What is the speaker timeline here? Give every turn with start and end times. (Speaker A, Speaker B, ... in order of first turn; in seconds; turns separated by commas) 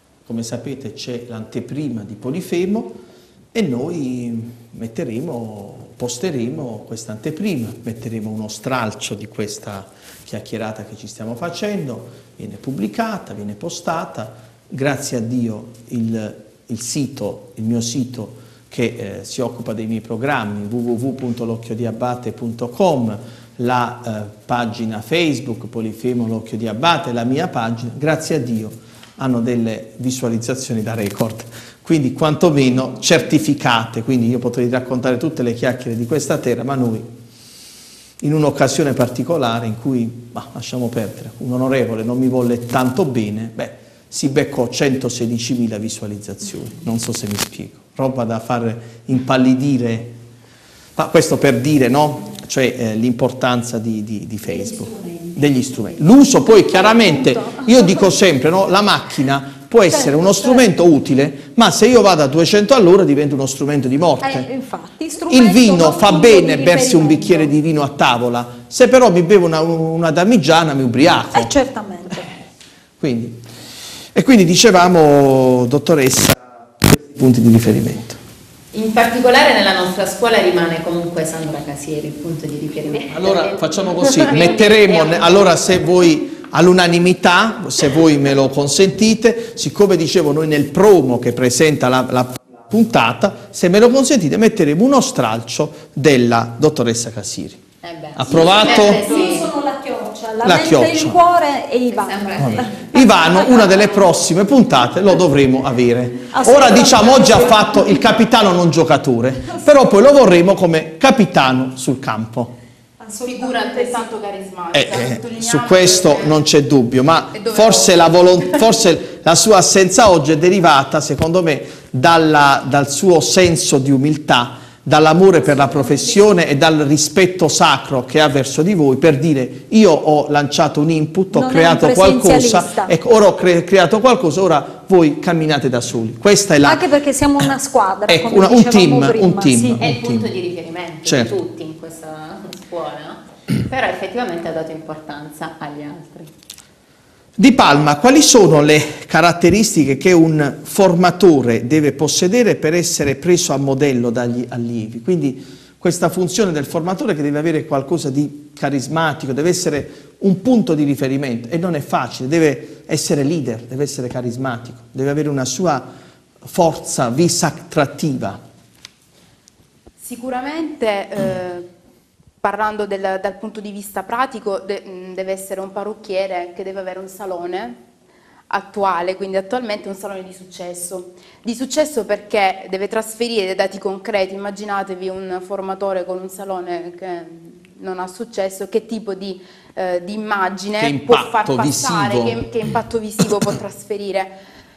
Speaker A: 0.2-3.0, Speaker A: 3.5-37.1, Speaker A: 38.2-50.1, Speaker A: 51.0-64.5, Speaker B: 54.5-55.4, Speaker B: 56.7-58.0, Speaker B: 59.9-60.6, Speaker B: 64.2-67.5, Speaker A: 65.3-71.5, Speaker B: 71.3-72.3, Speaker A: 73.0-73.4, Speaker A: 74.1-78.2, Speaker C: 78.7-85.8, Speaker A: 83.1-97.6, Speaker C: 97.8-99.5, Speaker A: 98.2-99.1, Speaker B: 98.7-103.6, Speaker A: 100.5-101.2, Speaker C: 101.9-103.0, Speaker A: 102.4-112.5, Speaker B: 106.3-108.0, Speaker B: 113.0-114.1, Speaker D: 113.3-116.4, Speaker A: 114.7-136.9, Speaker D: 117.3-118.6, Speaker B: 131.3-132.9, Speaker B: 136.6-139.8, Speaker A: 138.1-140.3, Speaker C: 139.8-146.3, Speaker A: 141.1-141.4, Speaker A: 147.4-165.9, Speaker A: 166.4-168.4, Speaker D: 170.0-171.7, Speaker D: 172.4-177.8, Speaker D: 178.5-194.4, Speaker A: 190.8-192.5